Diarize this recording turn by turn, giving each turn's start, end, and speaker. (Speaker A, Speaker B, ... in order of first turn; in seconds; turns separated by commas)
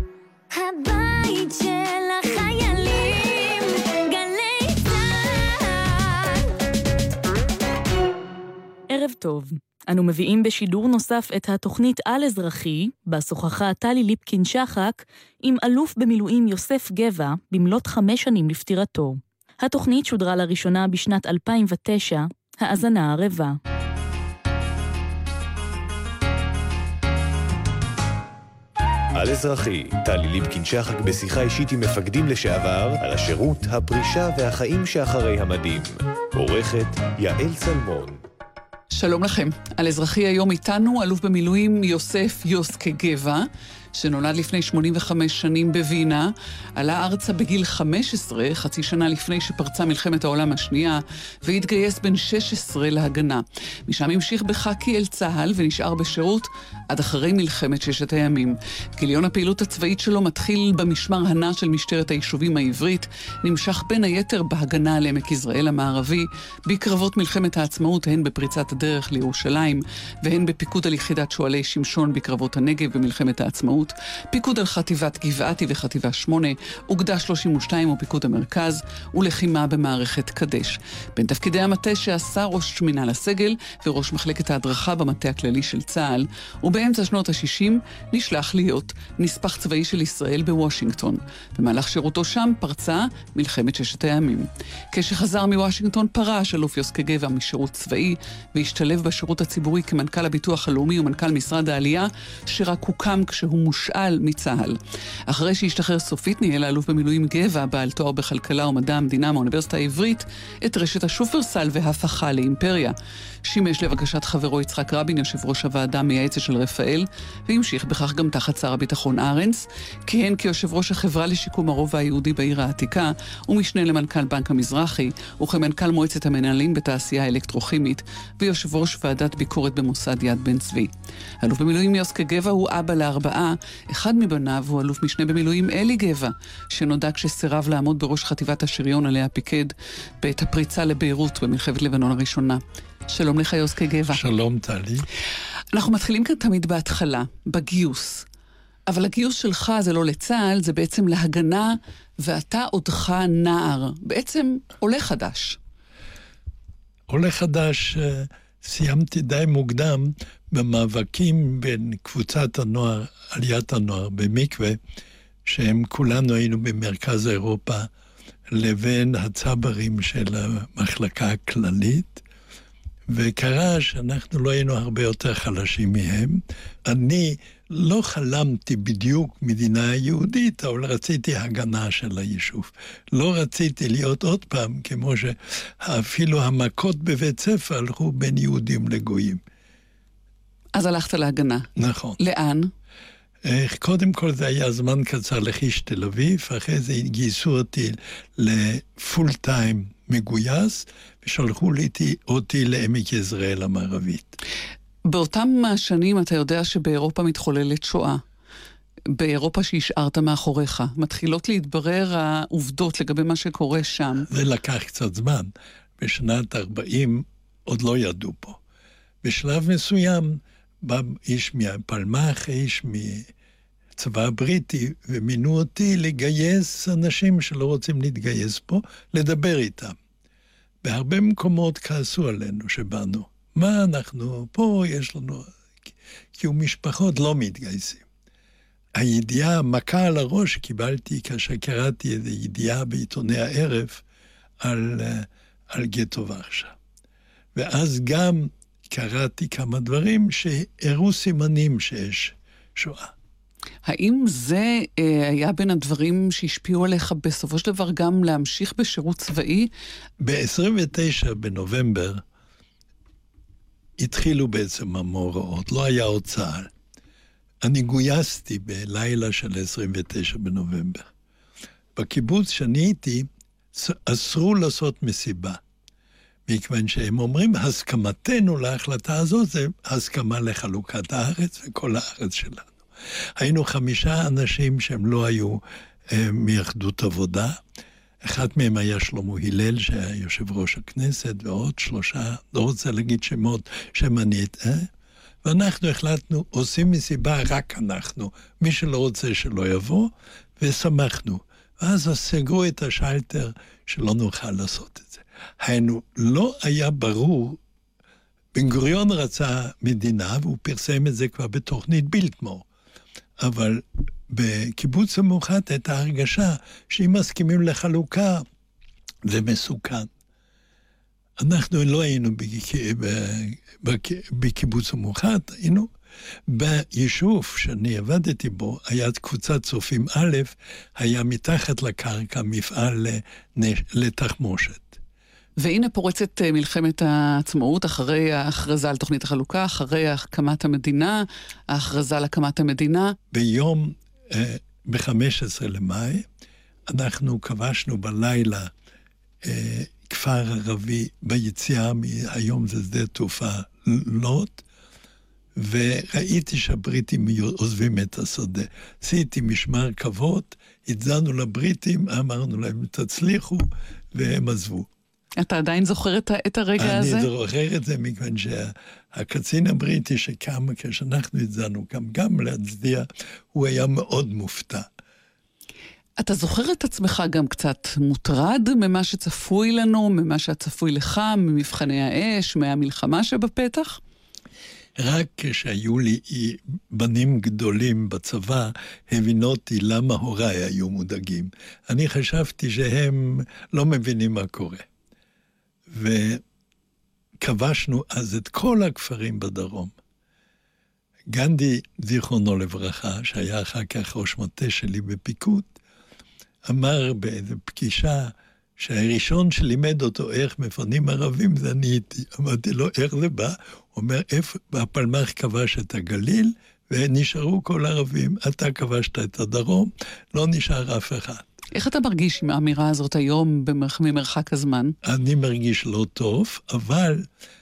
Speaker A: 0.5-6.4, Speaker B: 8.9-23.6, Speaker C: 29.1-38.2, Speaker D: 38.9-130.9, Speaker D: 131.4-144.2, Speaker E: 144.1-145.1, Speaker D: 145.7-148.2, Speaker D: 148.9-155.6, Speaker E: 157.1-164.8, Speaker E: 165.4-167.9, Speaker E: 168.5-172.2, Speaker E: 173.1-189.4, Speaker D: 190.7-191.7, Speaker E: 191.8-192.2, Speaker D: 192.2-192.7, Speaker E: 193.4-204.4, Speaker D: 205.1-208.2, Speaker D: 209.1-214.3, Speaker E: 214.3-218.6, Speaker E: 219.2-223.3, Speaker E: 224.0-230.0, Speaker E: 230.8-235.5, Speaker E: 236.3-238.0, Speaker E: 238.9-244.0, Speaker E: 244.6-246.7, Speaker E: 247.5-253.1, Speaker D: 253.8-259.7, Speaker E: 260.2-262.2, Speaker E: 264.0-266.7, Speaker E: 267.6-271.1, Speaker E: 271.9-275.6, Speaker E: 276.5-282.8, Speaker E: 283.4-287.6, Speaker E: 288.2-294.9, Speaker E: 295.4-307.6, Speaker E: 308.5-312.6, Speaker E: 313.4-318.4, Speaker E: 319.2-320.1, Speaker E: 321.4-325.9, Speaker E: 326.5-335.0, Speaker D: 335.6-343.1, Speaker E: 343.3-346.3, Speaker E: 346.9-348.7, Speaker E: 349.4-354.6, Speaker E: 355.6-364.9, Speaker D: 365.4-367.3, Speaker E: 366.8-374.9, Speaker D: 376.2-384.0, Speaker E: 385.0-394.9, Speaker E: 395.9-396.4, Speaker E: 397.4-399.9, Speaker E: 401.3-405.7, Speaker E: 406.7-421.5, Speaker D: 421.7-424.9, Speaker E: 425.0-427.3